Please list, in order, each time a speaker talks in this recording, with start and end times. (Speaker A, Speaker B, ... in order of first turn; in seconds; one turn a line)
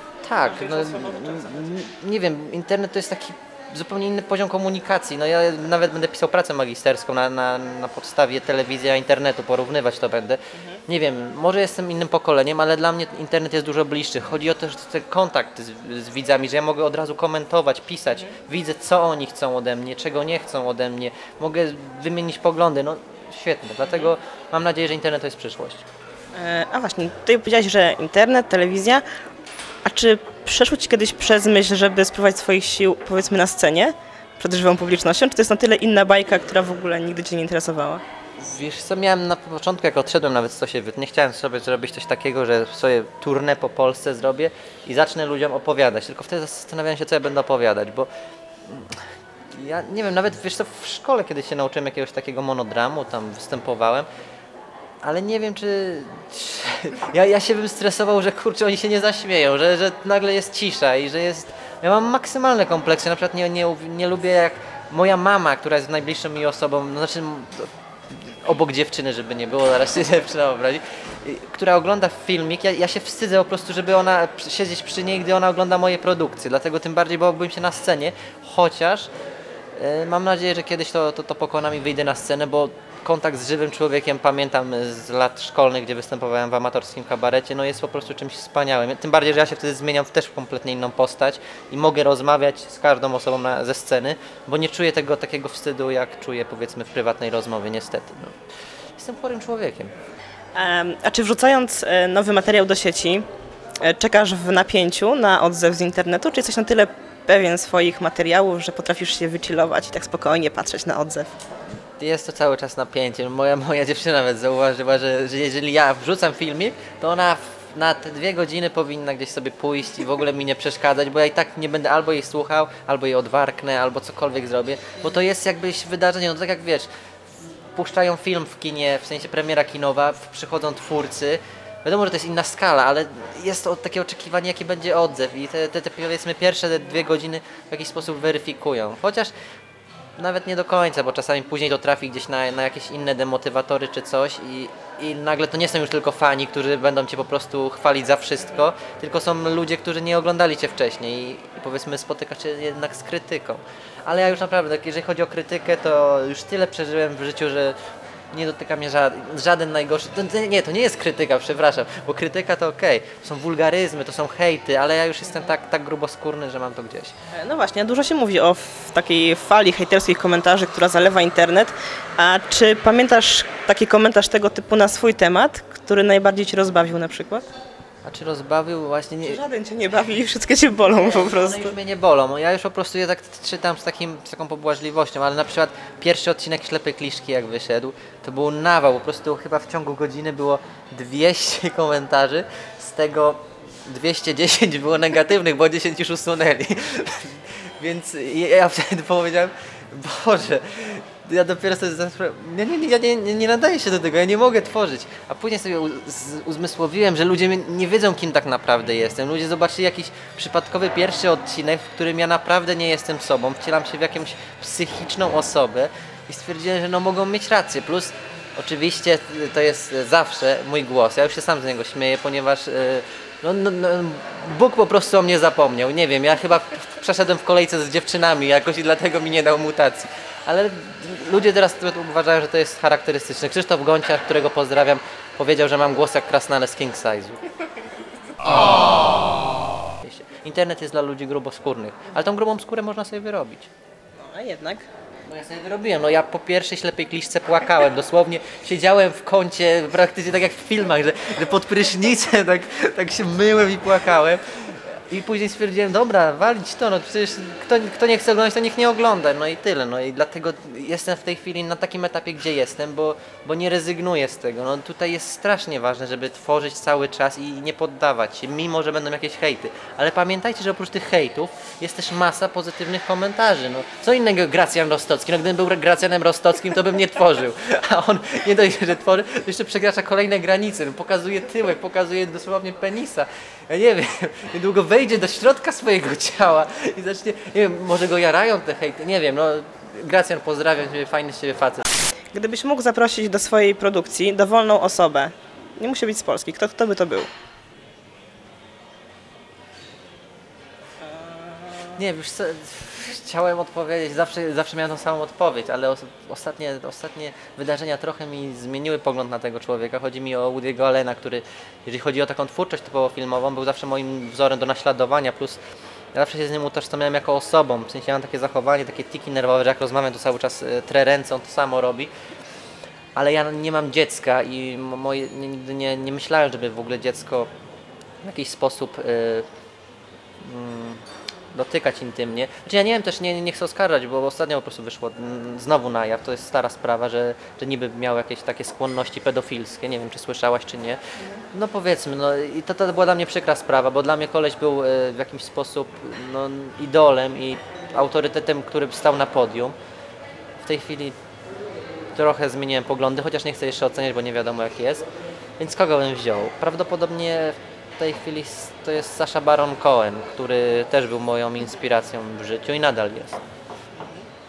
Speaker A: 0.2-25.8
Speaker B: 0.4-1.7
Speaker B: 10.6-10.8
Speaker B: 26.4-29.0
Speaker B: 29.9-38.0
Speaker A: 38.4-48.1
Speaker A: 48.7-54.1
Speaker A: 55.0-79.1
Speaker A: 79.8-98.3
Speaker A: 99.0-99.9
Speaker B: 100.5-103.2
Speaker B: 103.8-111.3
Speaker A: 112.0-126.9
Speaker A: 127.8-139.3
Speaker A: 140.2-157.8
Speaker A: 158.3-167.1
Speaker B: 167.3-177.4
Speaker A: 178.0-179.4
Speaker B: 179.2-181.8
Speaker A: 180.9-237.4
Speaker A: 238.4-239.4
Speaker A: 240.0-243.7
Speaker B: 244.2-244.9
Speaker A: 245.3-291.9
Speaker B: 292.3-297.3
Speaker B: 301.1-302.0
Speaker A: 301.9-315.6
Speaker A: 316.1-322.1
Speaker A: 323.1-327.5
Speaker A: 328.2-329.5
Speaker A: 330.4-331.0
Speaker A: 331.5-341.0
Speaker A: 341.5-349.8
Speaker A: 350.6-351.1
Speaker A: 352.1-355.1
Speaker A: 355.6-363.4
Speaker B: 364.0-364.2